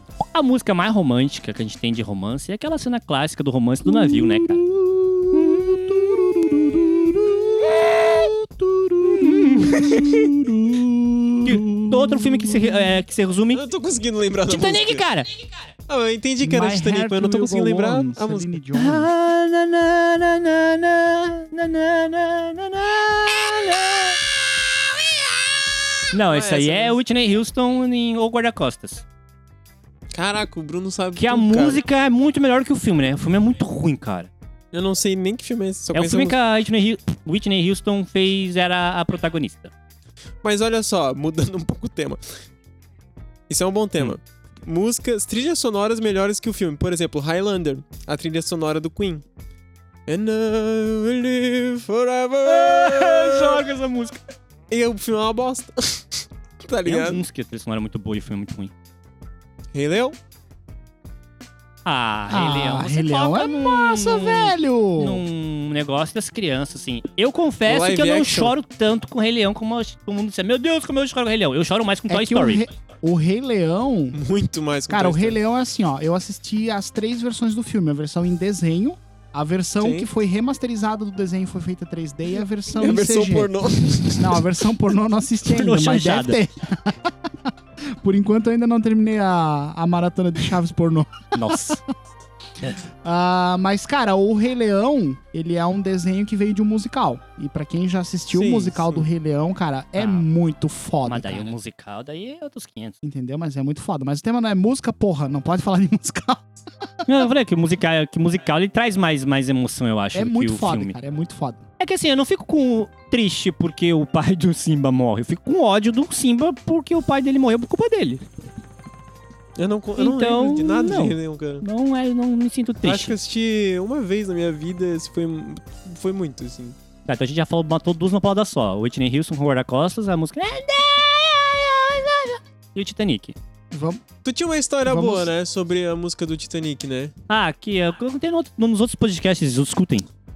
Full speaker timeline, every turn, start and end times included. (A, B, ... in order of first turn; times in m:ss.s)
0:00.3-0:04.7 A
0:03.9-0:13.0 B
0:05.3-0:05.9 A
0:09.1-0:10.3 A
0:11.4-0:13.6 A
0:13.5-0:15.0 C
0:14.5-0:15.3 A
0:15.9-0:18.5 C
0:16.4-0:19.1 B
0:18.8-0:24.2 A
0:26.1-0:29.0 A
0:26.3-0:27.0 C
0:30.1-0:31.8 C
0:31.2-0:34.3 A
0:34.7-0:36.4 C
0:35.9-0:39.7 A
0:40.4-0:42.2 C
0:43.5-0:49.2 C
0:50.1-0:53.7 C
0:52.5-0:54.2 A
0:54.7-0:57.2 C
0:56.8-0:58.7 A
0:59.7-1:00.2 C
1:01.8-1:12.7 A
1:02.3-1:05.2 B
1:07.7-1:08.6 C
1:12.1-1:14.2 B
1:14.1-1:15.4 C
1:14.9-1:23.5 B
1:19.8-1:20.1 C
1:22.8-1:24.4 C
1:24.2-1:31.8 B
1:25.5-1:26.4 A
1:31.3-1:31.8 A
1:33.0-1:41.6 B
1:38.3-1:39.1 C
1:40.0-1:40.3 A
1:41.1-1:43.0 A
1:43.0-1:46.5 B
1:47.1-1:51.0 A
1:50.1-1:51.6 B
1:51.8-1:58.2 A
1:59.6-2:01.6 C
2:00.0-2:03.2 A
2:02.8-2:06.8 C
2:07.1-2:13.4 A
2:13.7-2:14.0 B
2:14.2-2:17.1 C
2:14.8-2:15.3 B
2:17.3-2:20.1 A